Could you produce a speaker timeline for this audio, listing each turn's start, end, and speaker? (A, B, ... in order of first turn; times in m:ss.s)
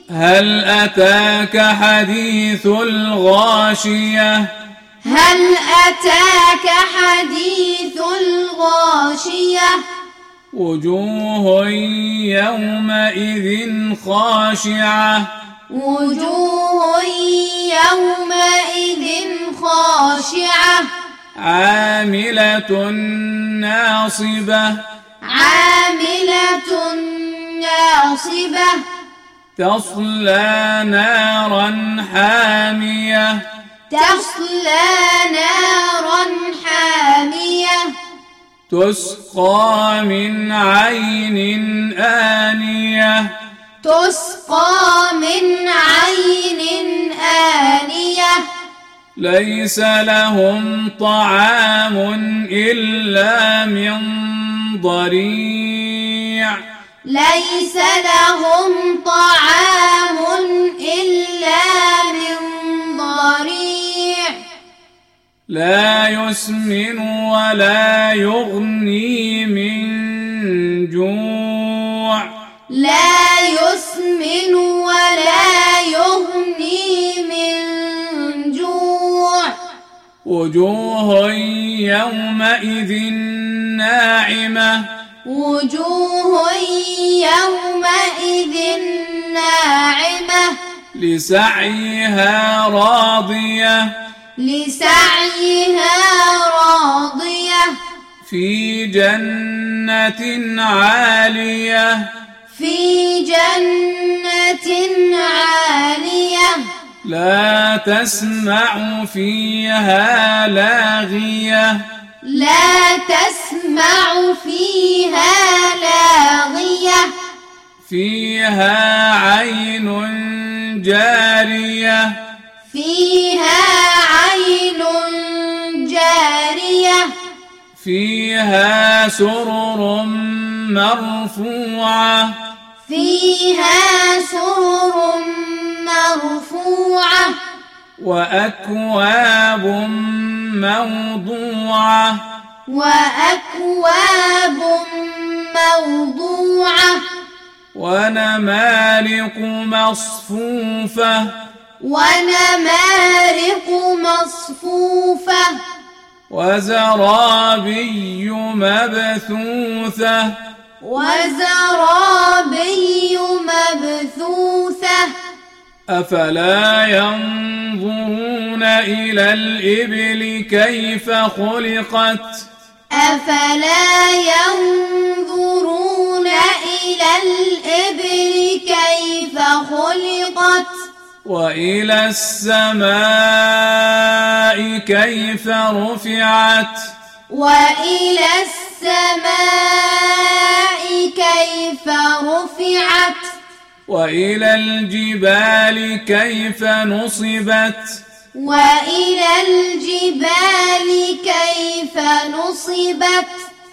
0:00.1-0:04.5 A
0:05.0-0:09.8 B
0:10.5-0:15.3 A
0:15.7-0:20.9 B
0:21.4-0:24.8 A
0:25.2-0:28.8 B
0:29.6-0:33.4 A
0:33.9-0:37.9 B
0:38.7-0:43.3 A
0:43.8-0:48.4 B
0:49.2-0:56.6 A
0:57.1-1:04.4 B
1:05.5-1:12.3 A
1:12.7-1:19.5 B
1:20.2-1:24.9 A
1:25.2-1:30.6 B
1:31.0-1:33.9 A
1:34.4-1:37.8 B
1:38.2-1:42.1 A
1:42.5-1:46.7 B
1:47.0-1:51.8 A
1:52.2-1:57.1 B
1:57.8-2:02.2 A
2:02.7-2:07.1 B
2:07.8-2:12.4 A
2:12.9-2:17.4 B
2:18.0-2:22.2 A
2:22.7-2:27.0 B
2:27.7-2:31.3 A
2:31.8-2:35.6 B
2:36.3-2:40.4 A
2:40.8-2:45.1 B
2:45.9-2:52.5 A
2:52.9-3:00.7 B
3:01.2-3:06.9 A
3:07.3-3:13.3 B
3:13.9-3:18.0 A
3:18.4-3:23.5 B